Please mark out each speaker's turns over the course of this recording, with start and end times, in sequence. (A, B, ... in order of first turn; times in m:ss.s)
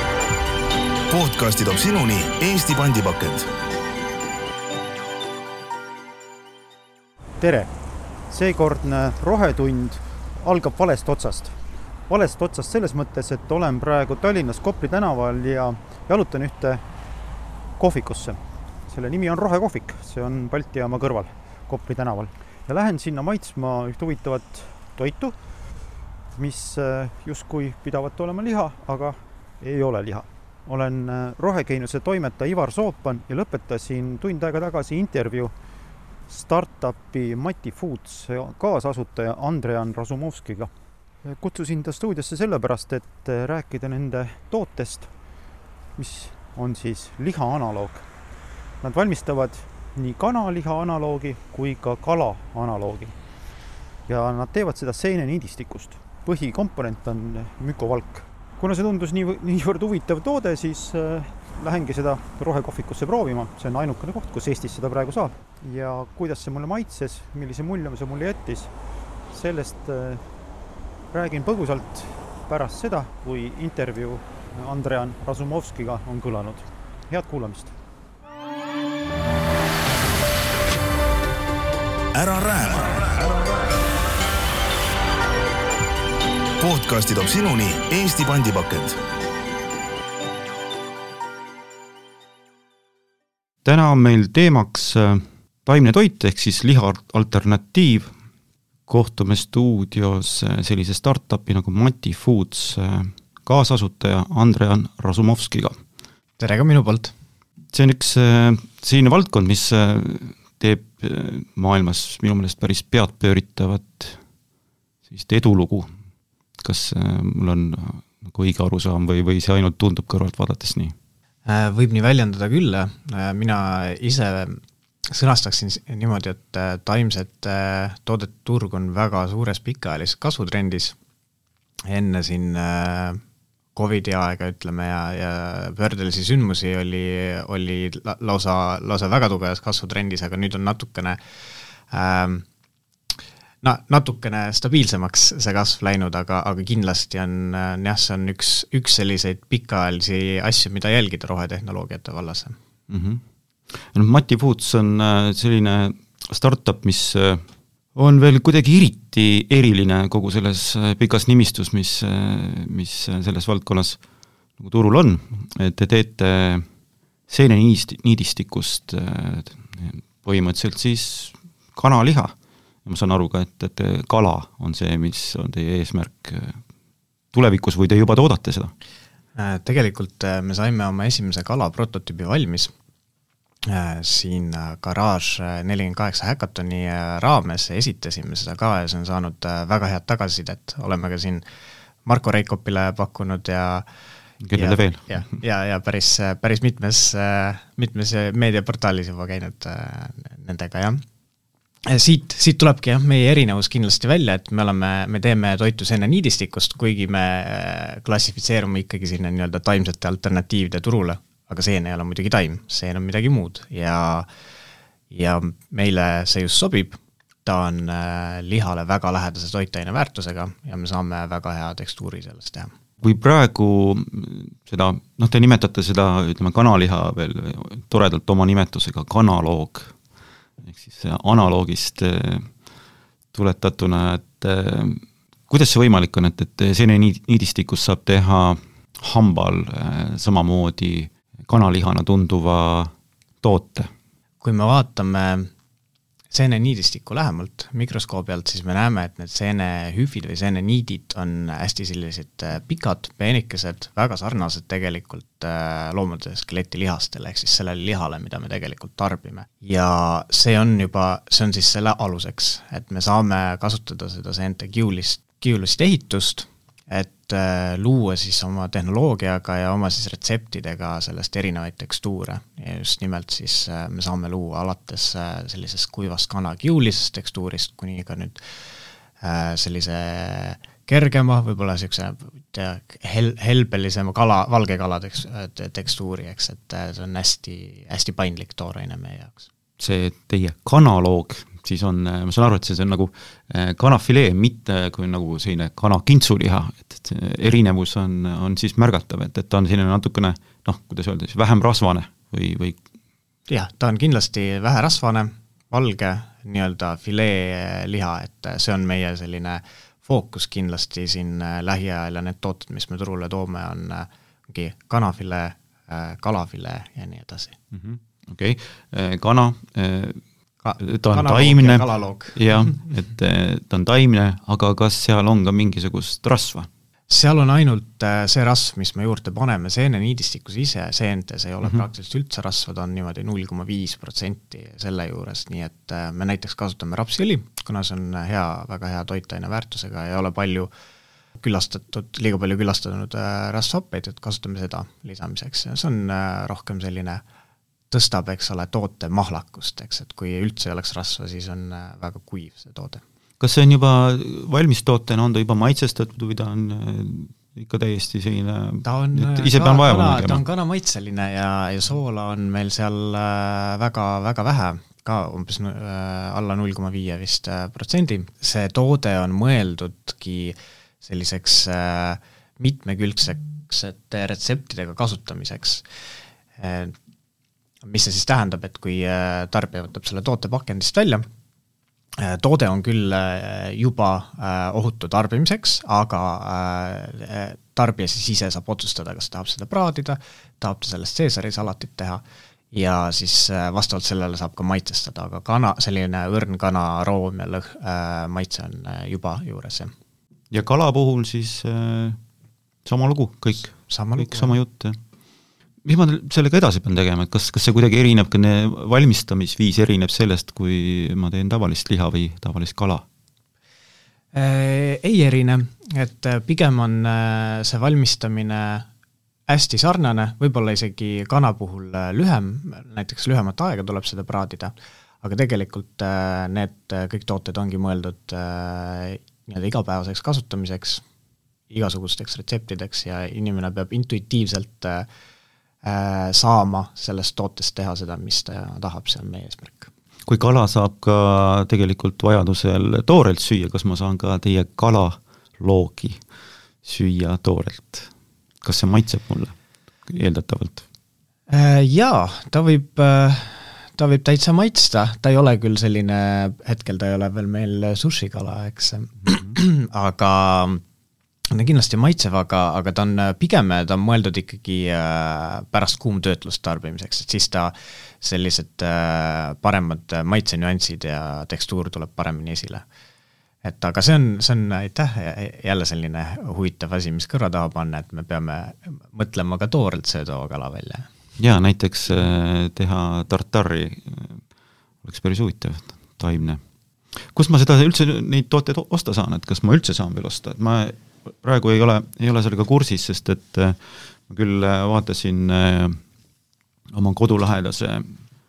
0:01.1-0:03.5 A
0:07.4-0:07.7 B
0:08.3-0:11.6 B
0:12.1-0:16.8 B
0:17.8-0:25.4 B
0:26.4-0:35.5 B
0:36.3-0:40.7 B
0:41.2-0:45.1 B
0:46.0-0:48.0 B
0:48.8-0:53.2 B
0:54.1-1:08.7 B
1:09.3-1:10.2 B
1:11.1-1:17.7 B
1:22.2-1:23.7 A
1:26.6-1:29.0 A
1:33.6-1:38.1 C
1:38.9-1:45.8 C
1:46.4-1:47.1 D
1:47.7-1:54.2 C
1:55.1-1:55.9 C
1:56.6-2:01.0 C
2:01.5-2:11.0 D
2:11.9-2:13.2 D
2:13.8-2:22.5 D
2:23.6-2:32.6 D
2:32.9-2:44.0 C
2:44.6-2:46.7 C
2:47.3-2:52.3 C
2:52.8-2:56.6 C
2:57.3-2:58.7 C
2:59.4-3:02.7 D
3:03.7-3:11.4 D
3:12.0-3:13.9 D
3:14.4-3:15.3 C
3:14.5-3:21.0 D
3:21.9-3:34.3 D
3:35.1-3:42.7 D
3:43.0-3:50.0 C
3:50.6-3:52.5 C
3:53.3-4:03.9 C
4:04.4-4:05.5 D
4:06.3-4:38.6 D
4:39.2-4:49.5 D
4:49.8-5:02.8 C
5:03.5-5:17.6 D
5:17.7-5:20.2 C
5:20.6-5:22.9 D
5:20.8-5:26.7 C
5:27.1-5:40.7 D
5:41.4-5:47.2 D
5:47.9-5:53.0 D
5:53.4-6:00.4 C
5:58.8-6:15.8 D
6:16.6-6:16.9 D
6:17.8-6:21.2 D
6:22.2-6:39.9 D
6:40.5-6:42.2 C
6:42.8-6:45.0 C
6:43.7-6:44.6 D
6:45.8-6:53.0 C
6:54.3-6:58.9 D
6:59.5-7:11.0 D
7:11.7-7:15.1 D
7:15.8-7:19.9 D
7:20.3-7:26.2 C
7:26.8-7:28.1 C
7:28.6-7:29.6 C
7:30.1-7:30.8 C
7:31.5-7:40.8 D
7:41.5-7:52.8 D
7:53.6-8:01.1 D
8:01.4-8:04.4 C
8:05.0-8:06.6 C
8:07.1-8:16.0 C
8:16.9-8:18.2 C